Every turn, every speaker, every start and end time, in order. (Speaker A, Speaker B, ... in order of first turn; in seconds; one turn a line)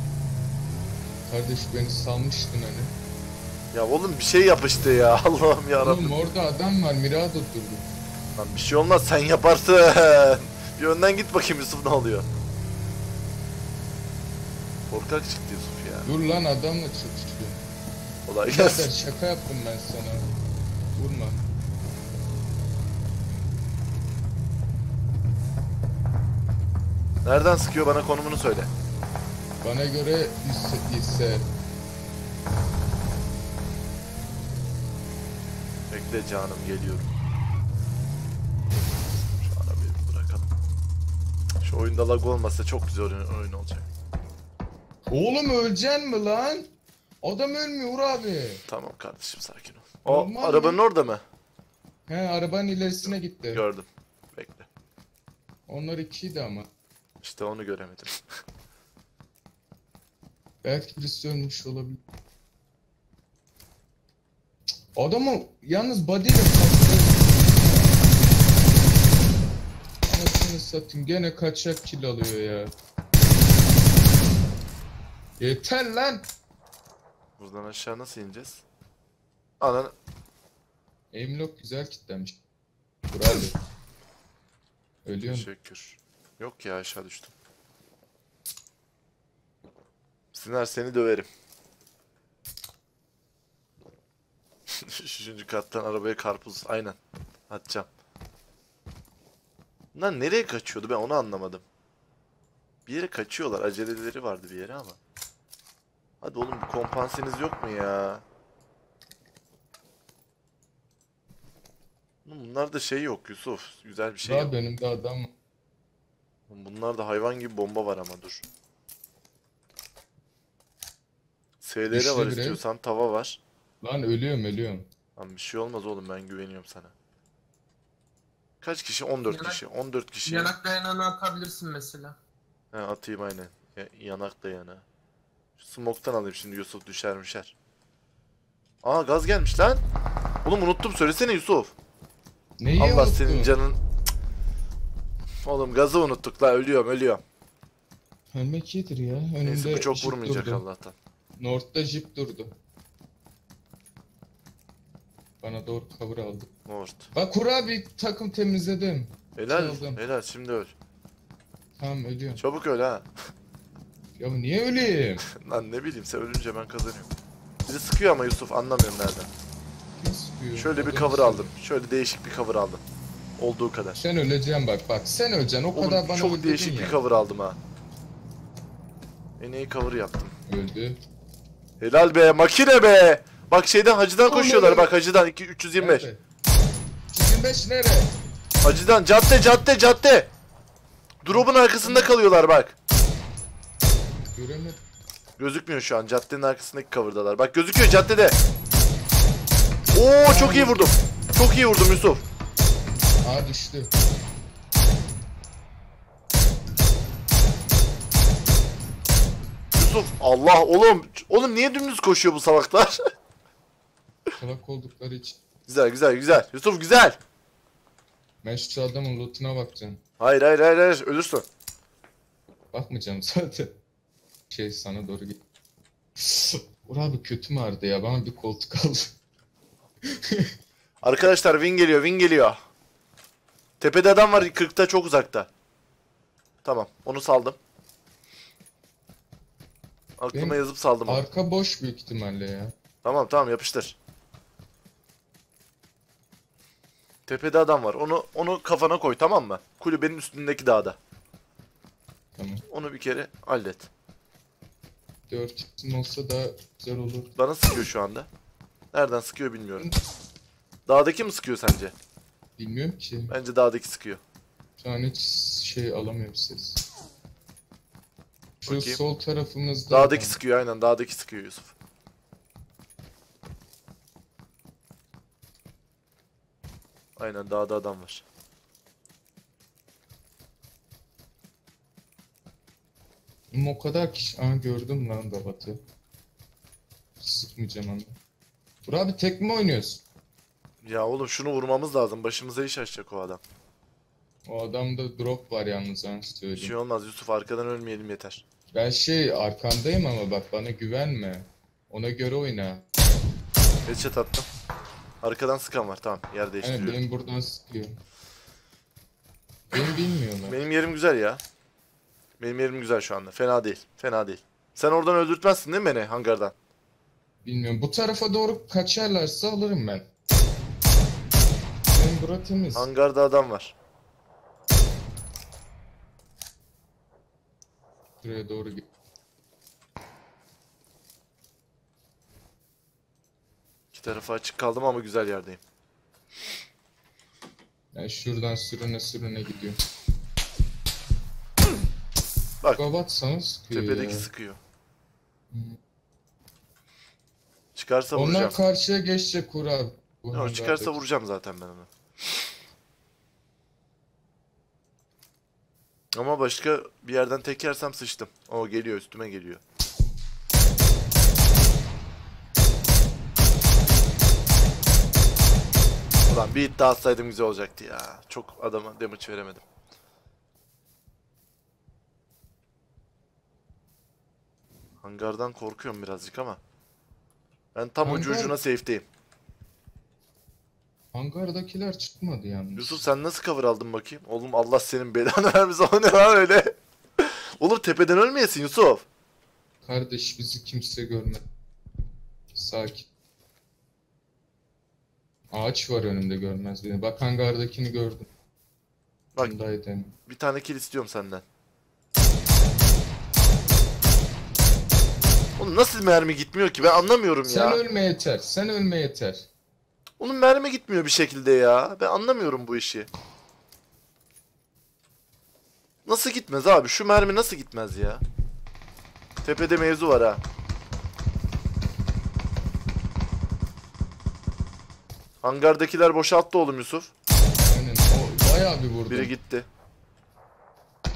Speaker A: 1.3-2.9
Speaker B: 3.7-6.2
Speaker A: 5.8-7.8
Speaker B: 8.4-12.3
Speaker B: 14.9-16.1
Speaker A: 16.1-17.6
Speaker B: 18.3-18.9
Speaker A: 18.5-20.3
Speaker A: 20.9-21.4
Speaker B: 27.2-28.7
Speaker A: 29.6-31.5
Speaker B: 35.9-37.1
Speaker B: 39.4-40.5
Speaker B: 41.6-43.9
Speaker A: 45.1-46.7
Speaker A: 47.2-48.6
Speaker B: 48.7-51.2
Speaker A: 50.0-50.8
Speaker A: 52.1-53.6
Speaker B: 53.0-54.7
Speaker A: 55.7-56.7
Speaker B: 57.2-58.2
Speaker A: 60.6-62.0
Speaker A: 64.9-68.1
Speaker A: 70.1-72.7
Speaker A: 75.4-76.3
Speaker B: 77.4-78.6
Speaker B: 79.6-79.9
Speaker A: 81.1-82.4
Speaker A: 83.1-83.6
Speaker A: 85.0-85.5
Speaker B: 85.2-87.3
Speaker B: 90.3-91.3
Speaker B: 94.8-97.0
Speaker B: 97.5-97.9
Speaker B: 99.9-101.6
Speaker B: 102.9-105.0
Speaker B: 106.2-108.2
Speaker B: 112.2-114.5
Speaker A: 114.2-115.3
Speaker B: 116.5-118.5
Speaker B: 121.6-123.4
Speaker A: 121.9-122.6
Speaker A: 123.8-124.9
Speaker B: 125.2-126.9
Speaker B: 128.6-130.5
Speaker C: 129.3-129.6
Speaker C: 130.3-132.2
Speaker B: 132.7-134.8
Speaker B: 135.6-137.5
Speaker B: 138.8-139.8
Speaker B: 140.4-141.7
Speaker A: 142.6-143.6
Speaker B: 142.8-143.8
Speaker B: 145.4-147.2
Speaker A: 148.3-150.6
Speaker B: 149.4-150.9
Speaker A: 151.4-152.5
Speaker A: 155.4-156.5
Speaker B: 156.7-157.1
Speaker A: 157.1-160.0
Speaker B: 159.4-160.7
Speaker A: 161.8-162.4
Speaker B: 162.4-163.1
Speaker A: 164.2-165.2
Speaker B: 165.3-167.1
Speaker B: 167.7-169.3
Speaker A: 170.0-171.5
Speaker B: 170.6-172.8
Speaker B: 173.4-174.0
Speaker A: 174.0-177.0
Speaker B: 175.7-177.6
Speaker B: 179.4-180.3
Speaker A: 180.5-181.0
Speaker B: 181.8-186.1
Speaker A: 184.2-184.9
Speaker A: 185.8-186.2
Speaker A: 187.1-188.1
Speaker B: 188.6-190.3
Speaker B: 191.2-192.8
Speaker A: 191.3-192.1
Speaker A: 194.3-194.8
Speaker B: 195.4-198.4
Speaker B: 199.9-202.2
Speaker A: 200.2-200.8
Speaker A: 203.2-203.9
Speaker B: 209.8-213.0
Speaker A: 214.4-215.4
Speaker B: 215.7-217.2
Speaker A: 218.4-220.0
Speaker B: 220.2-221.5
Speaker A: 222.7-223.7
Speaker A: 224.5-225.4
Speaker A: 226.2-229.1
Speaker A: 230.0-230.5
Speaker B: 231.0-232.6
Speaker B: 233.8-235.5
Speaker B: 236.6-237.6
Speaker B: 240.2-241.2
Speaker A: 240.3-242.7
Speaker B: 243.0-244.0
Speaker B: 247.3-251.0
Speaker A: 252.4-252.6
Speaker B: 252.7-253.9
Speaker A: 255.3-257.3
Speaker B: 257.4-258.3
Speaker B: 258.9-259.9
Speaker B: 260.9-261.9
Speaker A: 262.6-263.3
Speaker B: 263.3-264.2
Speaker A: 264.8-266.8
Speaker A: 268.6-270.4
Speaker B: 268.7-269.0
Speaker B: 269.9-271.7
Speaker B: 277.2-278.2
Speaker A: 283.5-285.8
Speaker A: 287.2-288.1
Speaker A: 288.9-290.0
Speaker B: 290.8-293.4
Speaker A: 294.5-296.7
Speaker B: 296.6-298.4
Speaker A: 298.7-302.8
Speaker B: 303.9-304.5
Speaker B: 305.2-307.0
Speaker A: 306.6-308.0
Speaker A: 309.7-310.6
Speaker B: 310.4-311.4
Speaker B: 312.4-316.5
Speaker A: 317.4-320.1
Speaker A: 321.9-322.9
Speaker B: 322.7-323.7
Speaker A: 328.2-328.9
Speaker B: 333.9-335.6
Speaker A: 337.9-339.8
Speaker A: 342.8-344.3
Speaker B: 343.7-344.6
Speaker A: 345.5-345.8
Speaker B: 347.8-348.6
Speaker A: 348.1-351.0
Speaker B: 350.3-351.9
Speaker B: 356.1-359.6
Speaker B: 366.3-369.6
Speaker B: 375.0-376.6
Speaker B: 377.8-379.1
Speaker A: 378.1-378.6
Speaker A: 381.1-383.0
Speaker B: 382.8-389.1
Speaker A: 389.8-391.4
Speaker A: 392.5-393.1
Speaker A: 395.5-398.3
Speaker B: 399.4-399.6
Speaker A: 399.4-400.1
Speaker B: 400.3-401.4
Speaker B: 405.6-407.8
Speaker A: 407.4-409.5
Speaker B: 410.2-413.1
Speaker B: 416.1-418.2
Speaker B: 419.4-420.4
Speaker B: 425.4-427.1
Speaker A: 427.6-429.3
Speaker B: 429.1-429.7